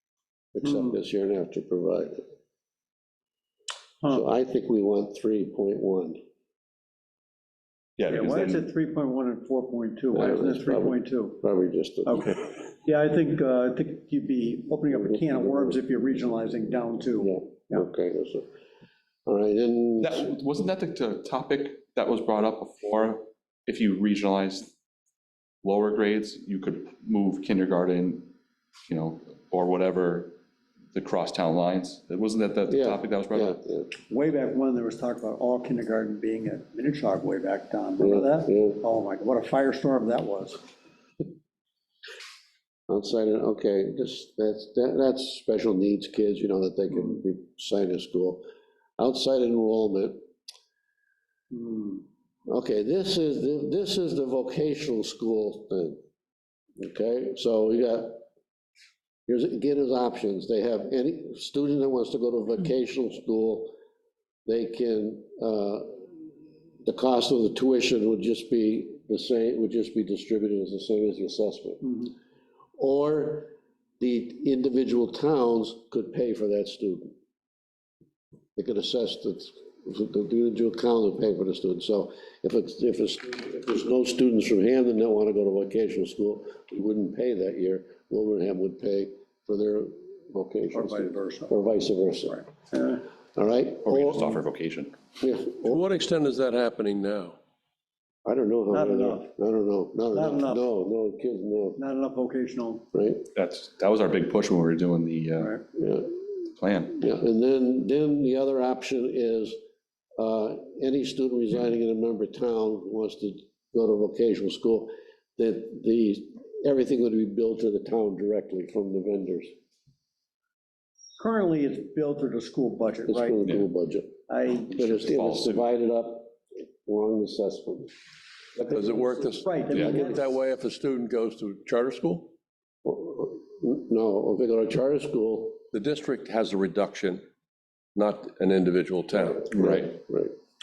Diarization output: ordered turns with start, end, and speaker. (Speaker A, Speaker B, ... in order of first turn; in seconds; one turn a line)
Speaker A: 0.5-2.2
Speaker A: 4.1-6.2
Speaker B: 8.0-8.7
Speaker C: 8.1-11.4
Speaker A: 10.2-12.4
Speaker C: 12.1-17.9
Speaker A: 14.9-15.8
Speaker A: 17.2-18.5
Speaker A: 19.3-20.3
Speaker B: 20.0-24.7
Speaker B: 25.6-28.3
Speaker B: 28.9-30.3
Speaker B: 30.9-33.5
Speaker A: 32.7-33.9
Speaker C: 34.1-40.6
Speaker A: 38.0-38.8
Speaker A: 42.9-48.4
Speaker A: 49.0-50.2
Speaker C: 51.5-52.0
Speaker A: 52.5-56.0
Speaker A: 56.8-58.2
Speaker A: 59.3-63.7
Speaker A: 64.5-66.1
Speaker A: 66.8-72.1
Speaker A: 72.8-77.1
Speaker A: 78.6-92.4
Speaker C: 90.7-91.6
Speaker C: 92.3-93.0
Speaker A: 93.4-94.4
Speaker B: 93.8-94.9
Speaker A: 95.2-95.8
Speaker D: 95.6-97.4
Speaker A: 98.2-101.8
Speaker C: 98.7-99.3
Speaker C: 100.1-100.7
Speaker C: 101.8-102.8
Speaker A: 102.9-103.2
Speaker B: 103.3-105.6
Speaker A: 105.8-106.2
Speaker B: 106.6-107.0
Speaker A: 106.9-109.6
Speaker A: 110.2-119.5
Speaker C: 121.2-123.4
Speaker A: 123.1-124.2
Speaker C: 124.3-124.7
Speaker A: 124.7-127.9
Speaker B: 124.7-125.6
Speaker D: 128.6-132.3
Speaker C: 129.0-130.2
Speaker A: 132.8-135.6
Speaker D: 135.7-137.2
Speaker D: 137.9-139.8
Speaker A: 139.5-140.3